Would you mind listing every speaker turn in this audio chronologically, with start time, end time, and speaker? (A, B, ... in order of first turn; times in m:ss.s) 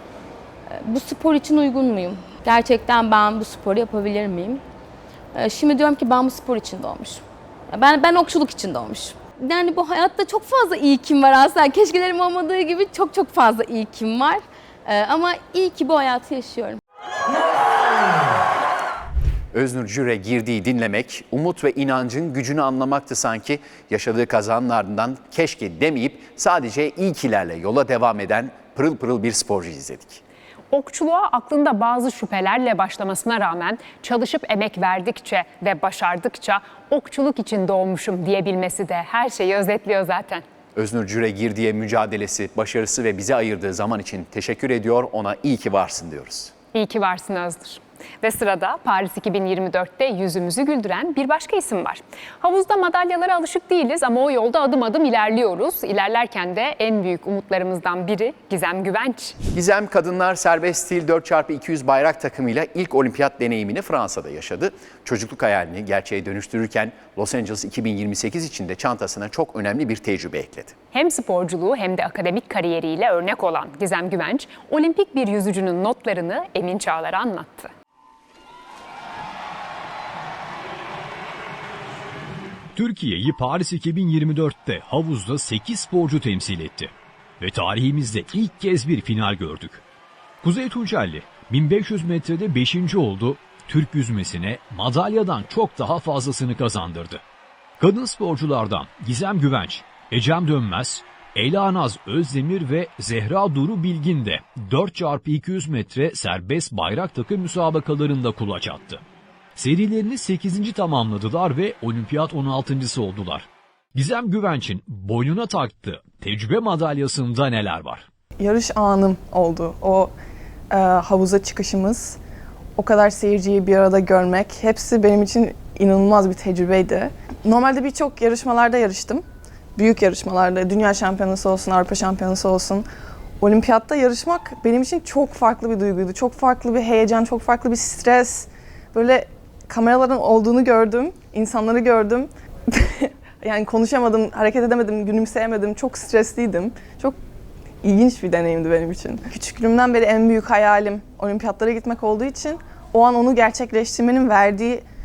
0:00.7-0:04.6 A
0:05.3-0:16.8 A
0:19.5-0:30.2 B
0:30.7-0:40.4 C
0:40.8-0:46.5 B
0:46.7-0:59.4 C
0:59.5-1:10.8 B
1:10.9-1:17.7 C
1:22.8-1:29.8 D
1:30.4-1:37.2 D
1:37.8-1:49.0 D
1:49.6-1:58.0 D
1:58.4-2:00.1 E
2:00.7-2:02.2 E
2:02.8-2:09.2 E
2:09.8-2:12.8 E
2:13.4-2:27.2 E
2:27.8-2:34.8 E